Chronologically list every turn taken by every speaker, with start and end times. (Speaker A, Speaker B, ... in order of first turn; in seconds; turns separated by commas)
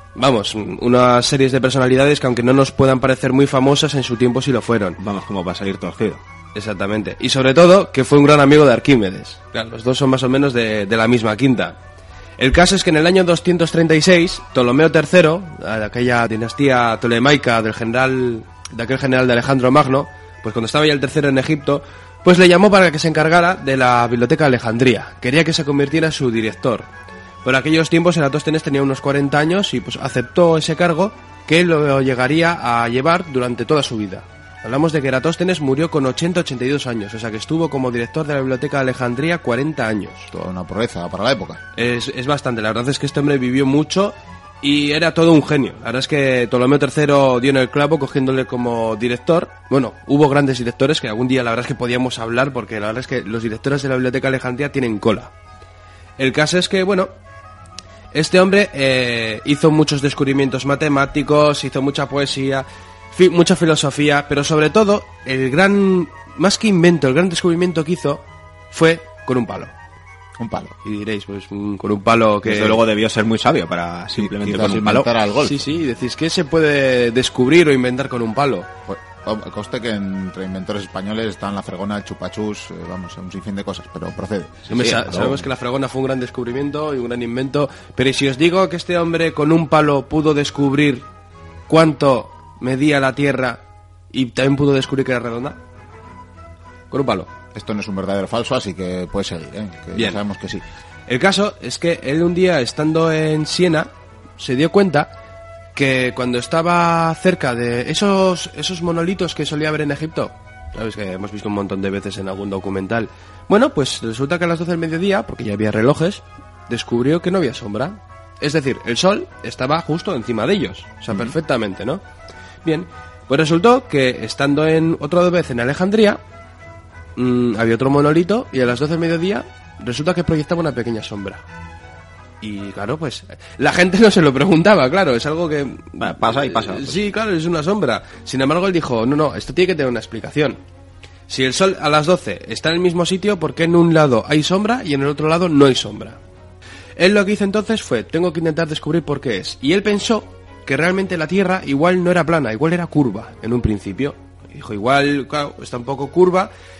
Speaker A: 0.2-5.0, Speaker B: 5.0-6.2, Speaker A: 6.5-11.8, Speaker A: 12.4-26.9, Speaker A: 27.4-40.3, Speaker C: 40.3-41.6, Speaker A: 41.8-55.3, Speaker A: 56.2-57.1, Speaker A: 58.1-69.7, Speaker C: 70.4-70.8, Speaker A: 70.8-72.8, Speaker B: 72.5-75.1, Speaker C: 74.2-75.7, Speaker A: 75.4-78.7, Speaker C: 78.9-85.4, Speaker A: 84.7-91.1, Speaker B: 84.7-85.2, Speaker A: 91.7-95.6, Speaker A: 96.9-97.3, Speaker C: 97.5-100.6, Speaker A: 101.1-105.1, Speaker A: 105.8-122.0, Speaker A: 122.6-126.2, Speaker A: 127.2-131.4, Speaker A: 132.4-140.6, Speaker B: 136.0-137.0, Speaker A: 141.3-146.2, Speaker A: 147.0-156.5